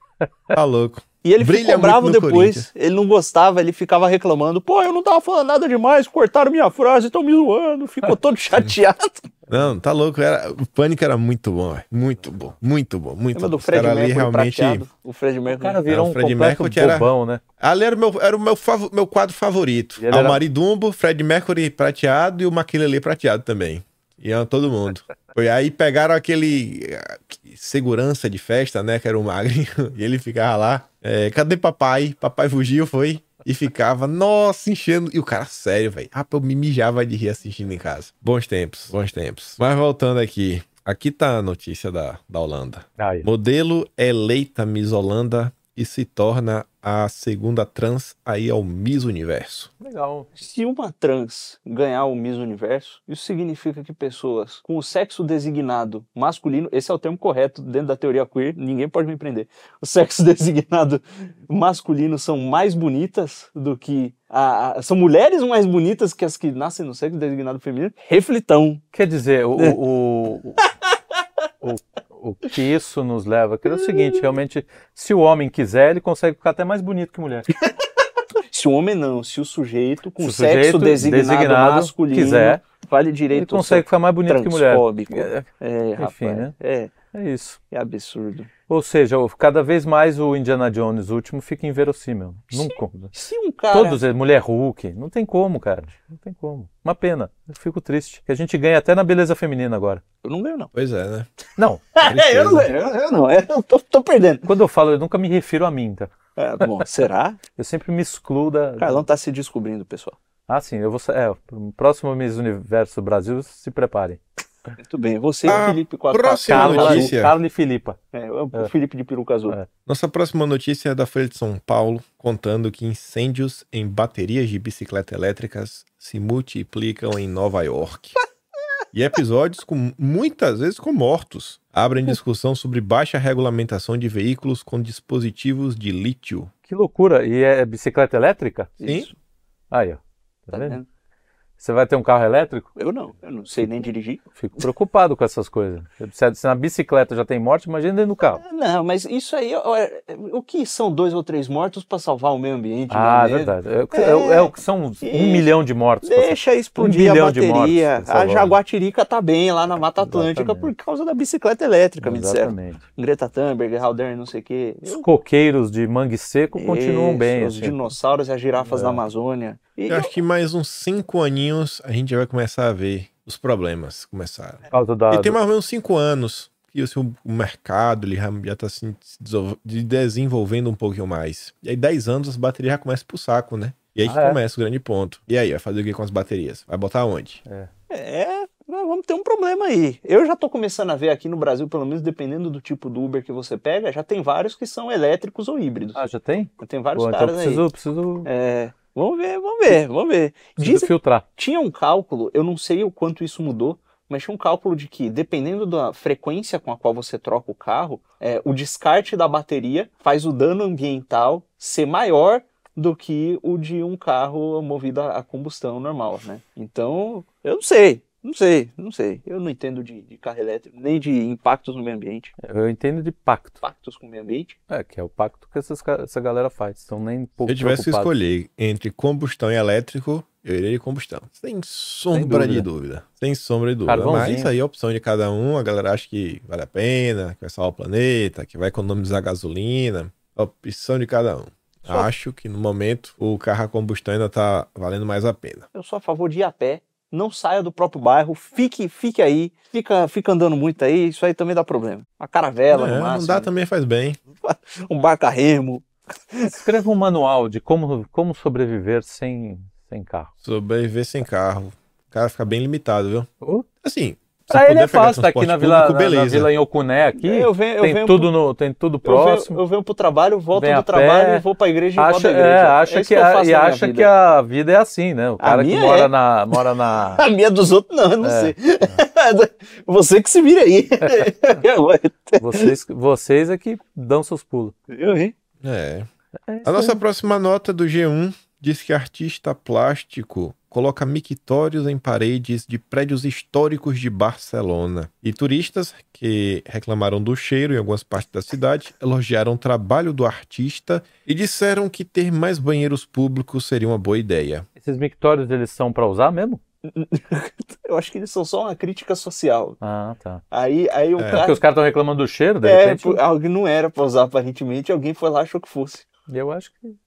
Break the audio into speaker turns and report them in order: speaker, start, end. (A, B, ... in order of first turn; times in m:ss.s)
0:00.5-0:02.7 A
0:01.2-0:09.3 B
0:09.5-0:14.8 A
0:13.4-0:15.8 B
0:15.5-0:17.4 C
0:15.9-0:49.7 A
0:20.0-0:20.4 C
0:43.0-0:43.3 C
0:49.8-0:50.3 C
0:50.4-1:08.8 B
1:08.9-1:10.7 C
1:11.6-1:17.5 C
1:13.7-1:14.2 B
1:18.5-1:26.9 B
1:20.2-1:22.6 C
1:23.3-1:25.5 C
1:26.0-1:26.5 C
1:27.1-1:27.6 C
1:27.7-1:28.5 B
1:28.7-1:33.1 C
1:32.5-1:34.0 B
1:33.7-1:40.0 C
1:40.2-1:40.7 B
1:40.7-1:41.3 A
1:41.6-1:41.9 C
1:42.0-1:44.5 B
1:42.0-1:42.7 A
1:44.4-1:46.1 C
1:46.4-1:47.4 B
1:47.6-1:49.0 C
1:48.8-1:50.2 B
1:50.5-1:54.2 C
1:54.8-1:57.1 B
1:55.5-1:57.3 A
1:56.5-1:58.0 C
1:58.1-1:59.6 B
1:59.9-2:08.2 A
2:08.9-2:16.5 A
2:16.7-2:18.7 C
2:18.8-2:19.2 B
2:18.8-2:19.1 A
2:19.7-2:20.8 C
2:20.5-2:20.9 B
2:21.6-2:22.7 C
2:22.8-2:24.2 B
2:24.4-2:28.4 C
2:28.4-2:35.5 B
2:32.9-2:38.6 C
2:36.0-2:45.0 B
2:40.0-2:40.7 C
2:42.0-2:42.8 C
2:44.9-2:47.8 C
2:46.6-2:50.1 B
2:48.6-2:49.0 C
2:49.9-3:07.4 A
2:54.7-2:55.4 C
3:04.0-3:04.4 C
3:07.9-3:16.0 B
3:16.0-3:18.3 C
3:16.6-3:17.6 B
3:18.2-3:42.3 B
3:20.6-3:21.2 C
3:42.4-3:43.6 C
3:43.6-3:44.6 B
3:44.7-3:48.1 C
3:47.5-4:05.7 A
3:52.1-3:52.7 C
3:53.9-3:54.5 C
4:05.7-4:13.5 B
4:12.7-4:14.2 A
4:14.4-4:16.6 B
4:16.5-4:20.3 C
4:20.4-4:23.3 A
4:23.8-4:26.5 A
4:24.5-4:29.6 C
4:27.2-4:28.3 B
4:29.0-4:34.1 B
4:30.6-4:31.4 C
4:32.0-4:37.3 C
4:35.4-4:42.7 B
4:38.2-4:39.0 C
4:42.4-4:44.7 C
4:44.9-4:45.3 B
4:45.6-4:46.1 A
4:46.5-4:47.0 C
4:46.6-5:04.7 A
5:04.8-5:06.6 C
5:06.9-5:09.8 B
5:09.8-5:10.4 C
5:10.5-5:11.6 B
5:11.2-5:11.4 A
5:11.3-5:13.2 C
5:12.6-5:16.1 B
5:16.3-5:17.0 C